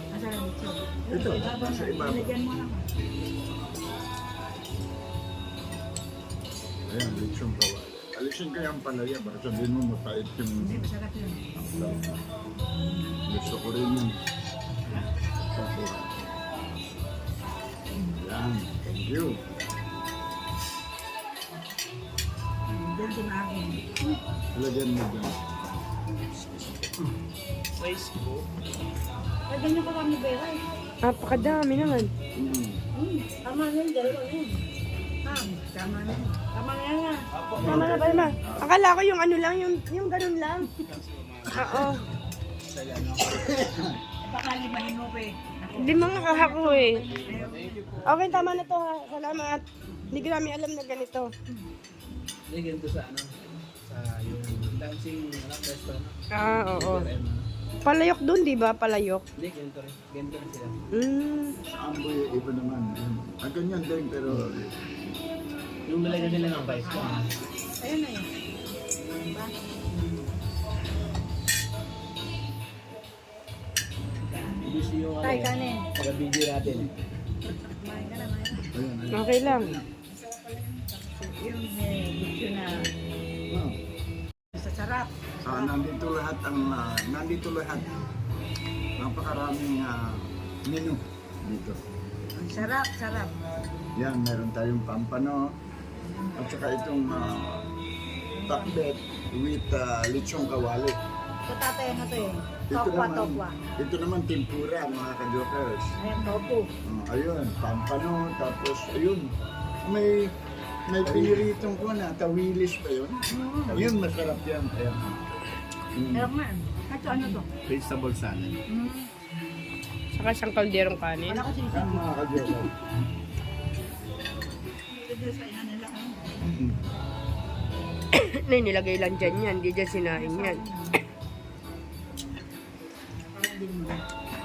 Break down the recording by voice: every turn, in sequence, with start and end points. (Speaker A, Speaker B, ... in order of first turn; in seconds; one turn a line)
Speaker A: 0.1-2.9
Speaker B: 1.1-2.3
Speaker B: 6.8-10.8
Speaker A: 10.6-11.6
Speaker B: 11.6-12.2
Speaker A: 12.7-13.2
Speaker B: 13.3-14.2
Speaker B: 15.5-16.1
Speaker B: 18.1-19.4
Speaker A: 22.7-24.2
Speaker B: 24.5-25.4
Speaker C: 27.8-28.4
Speaker A: 29.5-30.6
Speaker D: 31.0-32.1
Speaker B: 32.3-32.8
Speaker A: 32.9-34.6
Speaker A: 35.2-37.3
Speaker C: 37.4-37.8
Speaker B: 37.5-38.7
Speaker D: 37.6-40.7
Speaker C: 40.9-41.9
Speaker D: 41.5-42.0
Speaker C: 42.7-43.9
Speaker A: 44.2-48.1
Speaker D: 45.7-47.1
Speaker C: 47.1-48.7
Speaker D: 48.0-51.3
Speaker C: 52.5-56.1
Speaker D: 56.3-57.1
Speaker C: 56.7-57.5
Speaker D: 57.8-59.2
Speaker C: 59.4-60.8
Speaker D: 60.9-61.5
Speaker B: 61.7-64.7
Speaker A: 66.0-68.3
Speaker C: 66.2-67.2
Speaker A: 69.2-70.3
Speaker A: 74.3-74.7
Speaker C: 74.6-76.9
Speaker A: 75.2-75.9
Speaker A: 77.5-78.7
Speaker B: 78.7-79.8
Speaker D: 79.1-79.8
Speaker A: 80.0-82.9
Speaker B: 83.5-83.8
Speaker A: 84.5-85.7
Speaker B: 85.4-87.9
Speaker B: 89.0-91.8
Speaker A: 92.3-93.3
Speaker B: 94.0-95.4
Speaker B: 96.3-97.6
Speaker A: 98.4-98.7
Speaker B: 98.5-101.0
Speaker A: 101.5-103.6
Speaker B: 102.6-105.9
Speaker A: 106.0-106.7
Speaker B: 106.8-109.3
Speaker B: 109.8-110.3
Speaker B: 110.9-115.3
Speaker C: 111.1-111.4
Speaker A: 113.3-113.8
Speaker B: 115.9-116.3
Speaker A: 116.1-117.5
Speaker C: 117.7-118.5
Speaker A: 118.7-119.2
Speaker D: 120.1-121.4
Speaker A: 121.3-122.0
Speaker B: 121.7-122.7
Speaker A: 124.9-126.3
Speaker B: 126.4-126.8
Speaker D: 128.1-130.6
Speaker A: 130.2-131.0
Speaker A: 133.3-134.0